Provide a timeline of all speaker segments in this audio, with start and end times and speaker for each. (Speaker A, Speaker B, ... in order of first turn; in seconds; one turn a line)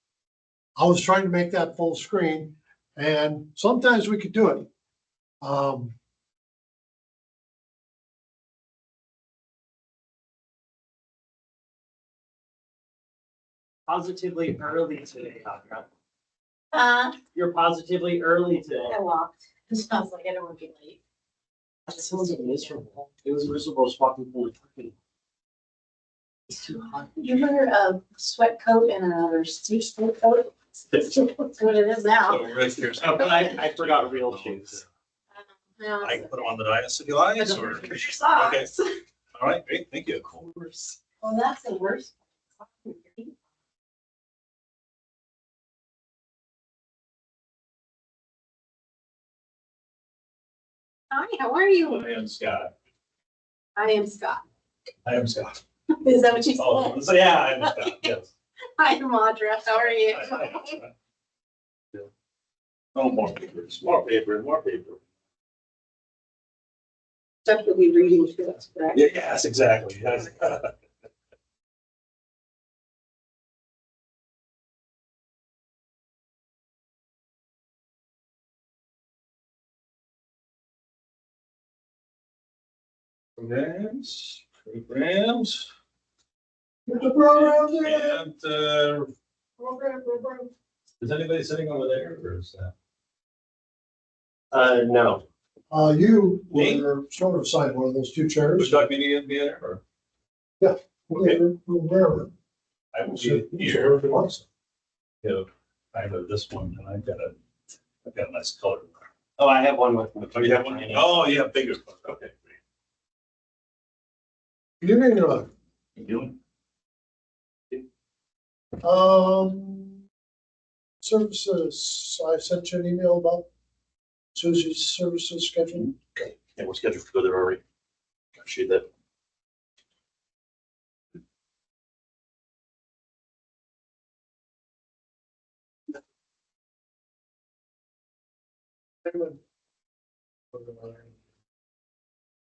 Speaker A: 0.8-4.7
Speaker A: 5.4-6.0
Speaker B: 13.9-15.9
Speaker C: 16.7-17.2
Speaker B: 17.3-19.0
Speaker C: 18.8-21.0
Speaker B: 21.9-24.9
Speaker C: 21.9-22.8
Speaker B: 26.5-27.0
Speaker C: 26.7-32.7
Speaker D: 32.3-34.8
Speaker B: 33.0-34.8
Speaker C: 33.2-33.5
Speaker C: 35.8-36.4
Speaker D: 36.0-38.7
Speaker C: 37.4-39.0
Speaker D: 39.4-40.5
Speaker C: 40.9-42.2
Speaker C: 42.7-43.3
Speaker C: 51.1-52.1
Speaker D: 51.8-52.7
Speaker C: 53.8-54.4
Speaker D: 55.0-55.6
Speaker C: 56.0-57.0
Speaker D: 56.5-58.3
Speaker C: 58.8-60.8
Speaker D: 59.9-60.9
Speaker D: 63.0-65.0
Speaker C: 67.5-69.0
Speaker D: 68.9-70.7
Speaker D: 83.4-85.7
Speaker A: 86.9-88.2
Speaker D: 87.4-89.1
Speaker A: 89.6-90.5
Speaker D: 91.0-92.7
Speaker B: 94.5-95.2
Speaker A: 95.7-98.8
Speaker D: 96.5-96.9
Speaker D: 98.6-99.8
Speaker A: 100.6-102.3
Speaker D: 101.2-101.4
Speaker D: 102.9-104.0
Speaker A: 103.1-104.5
Speaker D: 105.2-107.3
Speaker D: 108.0-109.0
Speaker B: 109.4-111.1
Speaker D: 110.3-112.6
Speaker A: 114.8-115.5
Speaker D: 116.0-116.3
Speaker A: 118.8-120.0
Speaker A: 121.0-123.5
Speaker A: 124.3-126.3
Speaker D: 126.6-127.6
Speaker D: 128.4-128.8
Speaker A: 139.1-139.4
Speaker A: 140.5-141.1